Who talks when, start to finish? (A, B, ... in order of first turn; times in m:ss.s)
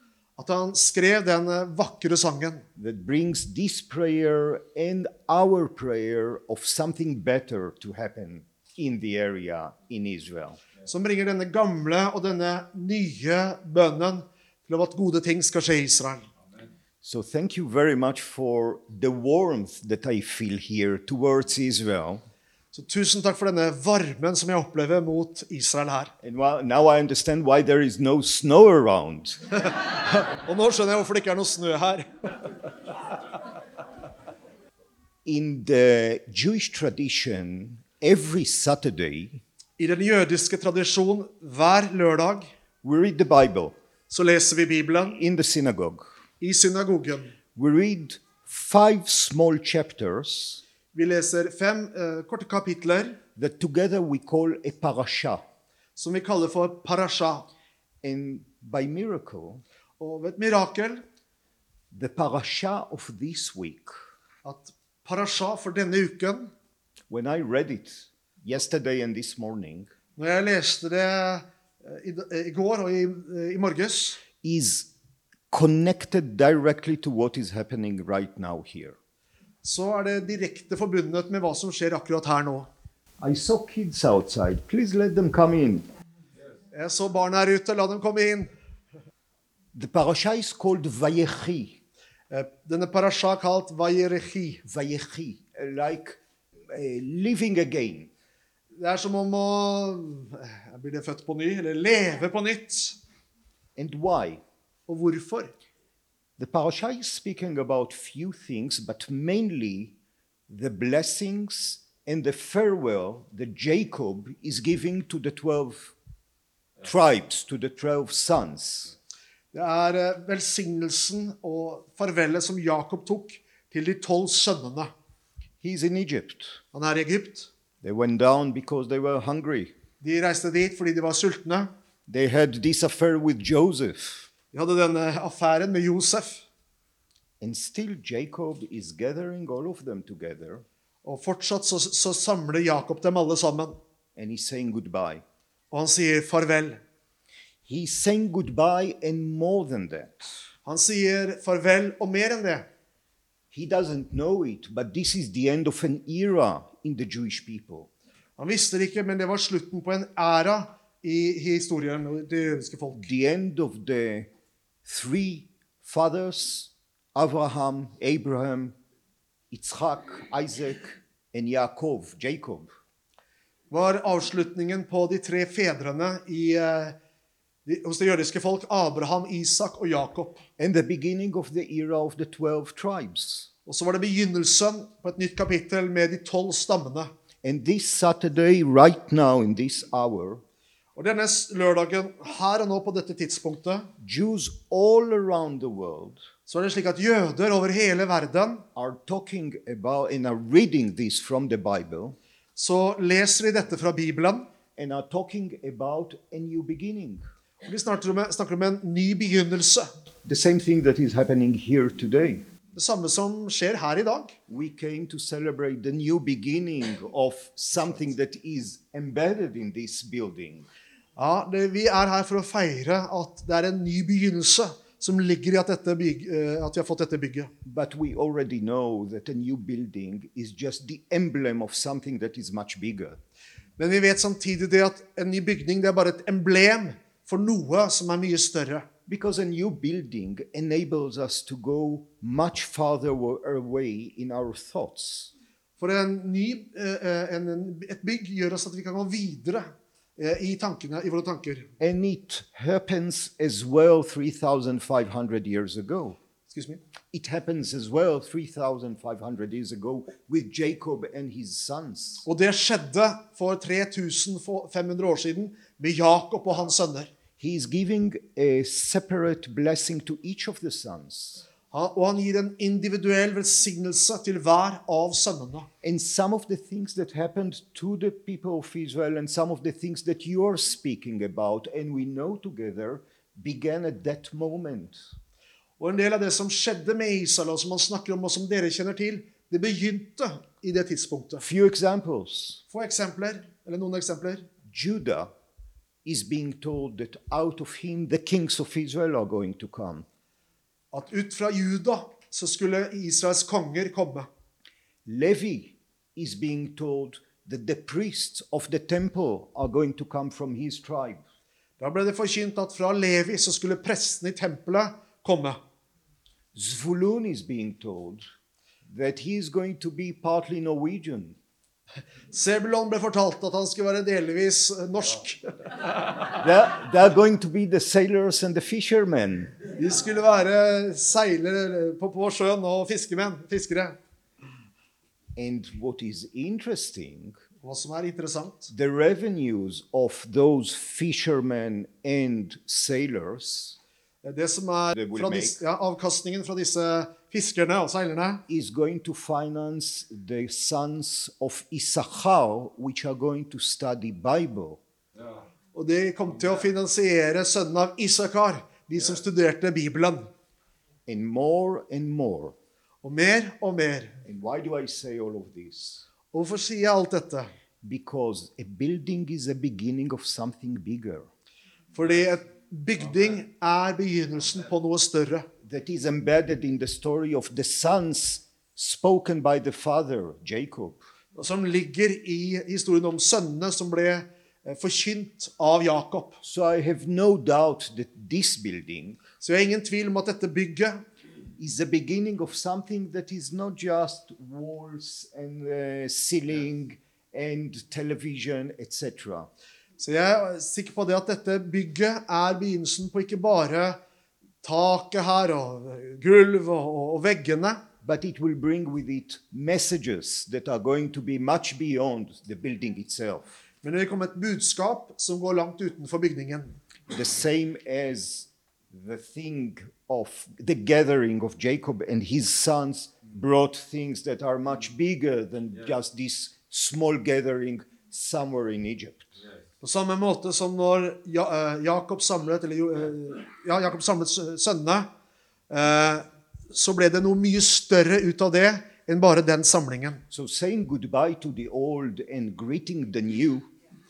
0:00.4-0:02.6 A
0:02.8-0:10.6 B
0:10.9-0:16.3 A
0:17.0-0:22.2 B
0:22.7-0:26.1 A
0:26.2-0:29.6 B
0:29.7-0:32.5 A
0:35.2-0:39.4 B
0:39.8-0:42.5 A
0:42.8-0:43.8 B
0:44.1-0:45.2 A
0:45.0-0:46.1 B
0:46.4-0:47.4 A
0:47.6-0:50.6 B
0:50.9-0:53.2 A
0:53.4-0:55.4 B
0:56.0-0:57.5 A
0:58.0-0:59.6 B
1:00.0-1:01.0 A
1:01.9-1:03.9 B
1:04.4-1:06.5 A
1:07.1-1:09.9 B
1:10.2-1:14.2 A
1:14.4-1:14.9 B
1:15.5-1:19.0 B
1:19.6-1:22.7 A
1:23.2-1:25.8 B
1:26.7-1:28.5 A
1:29.7-1:31.8 B
1:32.3-1:34.6 A
1:34.6-1:38.1 B
1:38.8-1:43.0 A
1:43.8-1:44.4 B
1:44.9-1:45.5 A
1:46.4-1:49.9 B
1:50.5-1:55.9 B
1:56.8-1:58.9 B
1:59.5-2:04.9 A
2:05.6-2:06.6 B
2:06.7-2:07.5 A
2:07.8-2:09.7 B
2:10.0-2:11.7 A
2:12.1-2:14.3 B
2:14.5-2:16.4 A
2:17.4-2:20.6 B
2:21.0-2:23.8 A
2:24.2-2:25.2 B
2:25.7-2:26.8 A
2:27.7-2:30.3 B
2:30.6-2:32.7 A
2:33.5-2:37.9 B
2:38.4-2:43.1 A
2:43.0-2:44.3 B
2:44.8-2:48.8 B
2:49.5-2:52.7 B
2:53.7-2:57.0 A
2:57.7-3:00.4 A
3:00.6-3:03.5 B
3:03.7-3:07.1 A
3:07.4-3:10.4 B
3:11.0-3:13.9 A
3:14.0-3:16.2 B
3:16.5-3:18.6 A
3:18.8-3:22.2 B
3:22.6-3:24.5 A
3:24.8-3:27.2 B
3:27.6-3:29.9 A
3:30.3-3:32.4 B
3:32.7-3:34.3 A
3:34.5-3:40.7 B
3:41.2-3:47.5 A
3:47.6-3:53.2 B
3:53.8-3:58.9 A
3:59.1-4:05.3 B
4:05.8-4:11.7 A
4:11.8-4:16.2 B
4:16.5-4:16.8 A
4:17.1-4:22.2 B
4:22.2-4:27.1 A
4:27.4-4:31.4 B
4:31.7-4:35.7 A
4:35.8-4:45.0 B
4:45.8-4:51.4 A
4:51.4-4:52.6 B
4:52.7-4:54.5 A
4:54.7-4:55.3 B
4:56.0-5:00.1 B
5:00.9-5:04.3 A
5:05.1-5:11.2 B
5:11.8-5:15.6 A
5:16.6-5:18.2 B
5:18.9-5:21.4 B
5:22.3-5:26.2 A
5:26.4-5:29.5 B
5:29.7-5:34.0 A
5:35.4-5:37.4 B
5:37.6-5:38.7 A
5:38.7-5:43.8 B
5:44.2-5:48.4 A
5:45.0-5:45.6 B
5:48.5-5:54.8 B
5:55.8-6:00.3 A
6:01.1-6:02.6 B
6:03.0-6:04.2 A
6:04.2-6:06.1 B
6:06.3-6:07.5 A
6:07.8-6:11.3 B
6:11.9-6:15.4 A
6:15.6-6:21.0 B
6:21.4-6:26.4 A
6:26.4-6:29.2 B
6:29.4-6:31.0 A
6:31.6-6:39.5 B
6:40.0-6:44.0 A
6:44.6-6:47.8 A
6:48.0-6:53.6 B
6:53.8-6:56.8 A
6:57.1-7:09.3 B
7:09.8-7:15.1 A
7:15.7-7:20.2 A
7:20.3-7:23.7 B